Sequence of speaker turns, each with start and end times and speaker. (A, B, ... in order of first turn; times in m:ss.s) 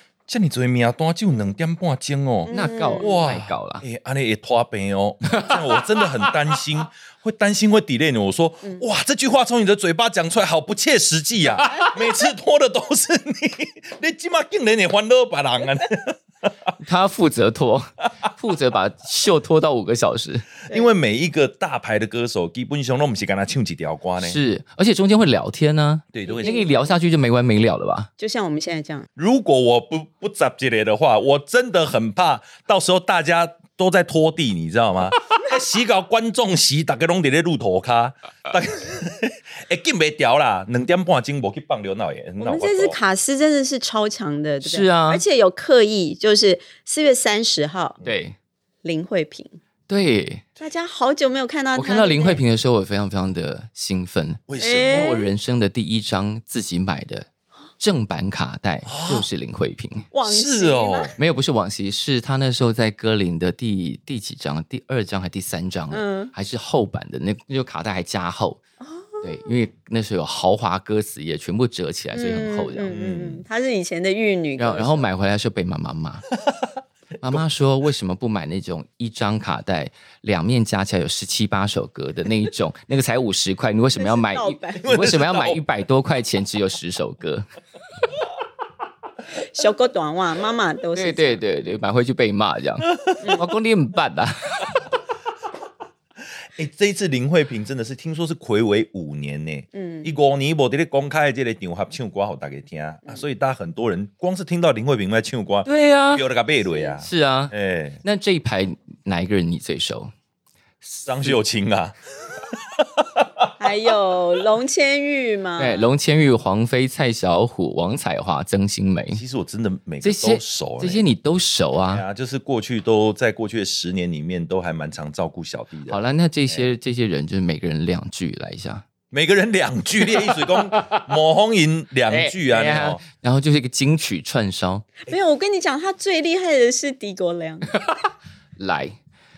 0:00.3-0:16.7 A
0:02.5-0:03.2 B
0:02.5-0:03.8 C
0:05.3-0:05.6 C
0:16.8-0:20.4 C
0:20.7-0:24.4 A
0:24.2-0:28.1 C
0:26.1-0:26.6 A
0:26.3-0:27.0 B
0:28.2-0:29.1 B
0:29.2-0:43.0 A
0:42.4-0:48.0 B
0:44.6-0:45.2 C
0:48.0-0:48.3 C
0:48.8-0:49.5 B
0:49.9-0:50.4 C
0:50.6-0:52.4 B
0:51.7-0:57.2 C
0:54.5-0:55.1 A
0:54.6-0:55.3 B
0:57.8-1:00.1 C
0:58.8-0:59.3 A
1:00.1-1:01.1 B
1:00.2-1:01.1 A
1:01.2-1:08.6 C
1:05.9-1:06.3 B
1:08.8-1:09.5 B
1:09.2-1:12.9 C
1:12.1-1:15.0 B
1:12.9-1:13.4 A
1:14.6-1:16.3 C
1:17.2-1:27.4 C
1:24.0-1:24.8 B
1:24.8-1:25.6 A
1:29.4-1:31.4 B
1:31.0-1:34.8 C
1:33.2-1:33.4 B
1:36.5-1:48.0 A
1:39.7-1:40.1 B
1:45.6-1:46.2 C
1:47.0-1:50.1 C
1:50.8-1:51.3 C
1:51.0-1:53.5 A
1:53.6-1:55.9 B
1:55.6-1:59.2 C
1:59.1-2:01.0 A
2:00.0-2:02.0 C
2:01.9-2:06.7 A
2:05.9-2:08.8 C
2:09.1-2:13.0 A
2:10.0-2:11.1 C
2:12.1-2:14.9 C
2:15.1-2:17.7 B
2:17.7-2:19.0 C